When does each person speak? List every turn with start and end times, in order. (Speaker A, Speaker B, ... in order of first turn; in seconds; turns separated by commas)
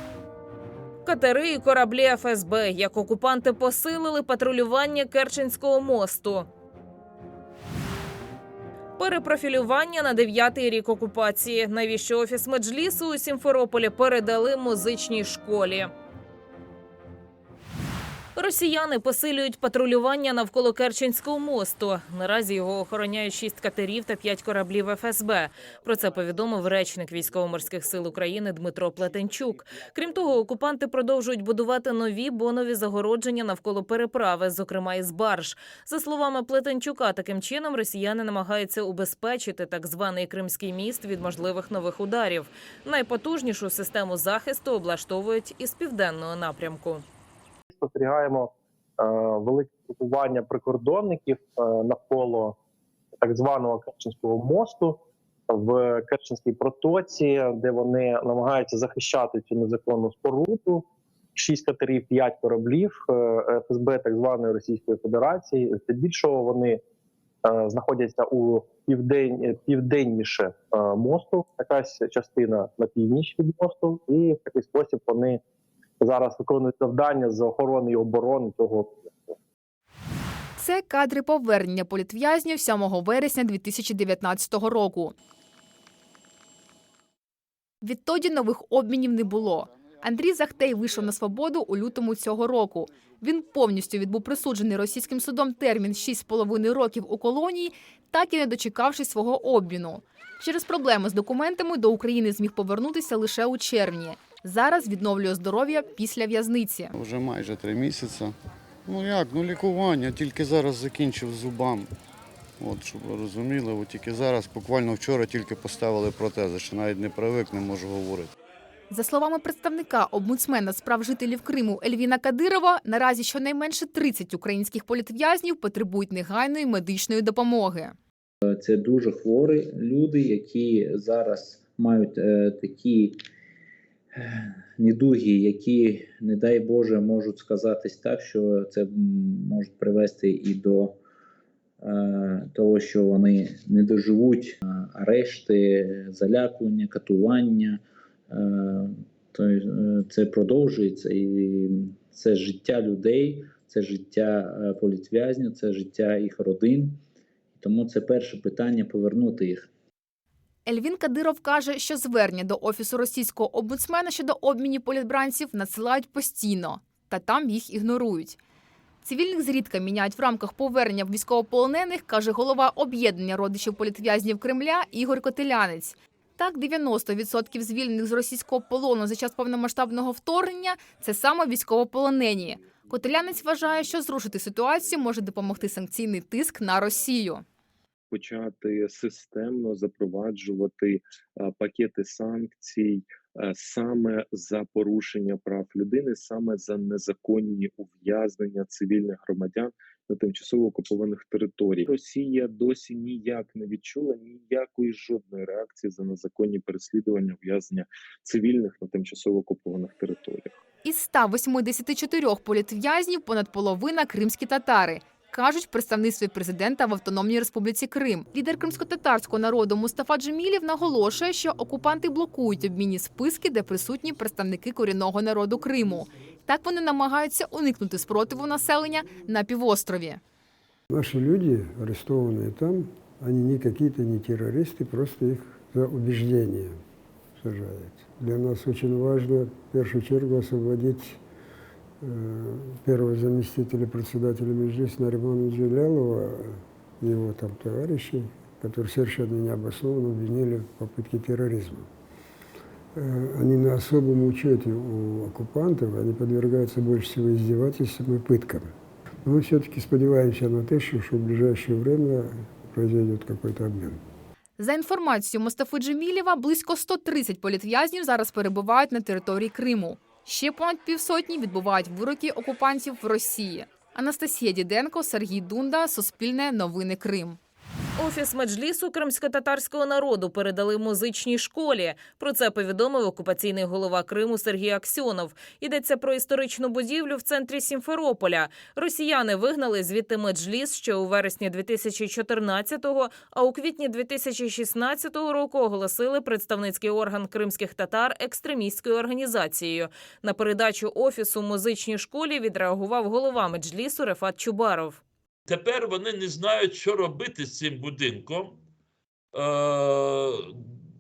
Speaker A: 1.0-6.5, Speaker A: 9.0-15.9, Speaker A: 18.4-47.0, Speaker B: 47.7-52.6, Speaker B: 53.2-66.8, Speaker B: 67.4-75.4, Speaker B: 76.0-79.3, Speaker C: 80.6-85.1, Speaker C: 87.8-107.0, Speaker D: 107.0-108.3, Speaker D: 108.9-111.9, Speaker D: 112.6-118.3, Speaker C: 118.9-127.9, Speaker E: 128.5-133.2, Speaker E: 134.2-141.0, Speaker E: 141.8-157.0, Speaker E: 157.5-159.7, Speaker C: 160.7-168.4, Speaker C: 169.0-187.4, Speaker F: 188.1-210.6, Speaker C: 210.8-230.2, Speaker G: 230.9-236.8, Speaker G: 237.4-241.2, Speaker G: 242.0-251.9, Speaker G: 252.9-258.7, Speaker G: 259.2-264.0, Speaker C: 264.6-277.4, Speaker A: 278.0-305.0, Speaker H: 305.5-308.6, Speaker H: 309.3-310.6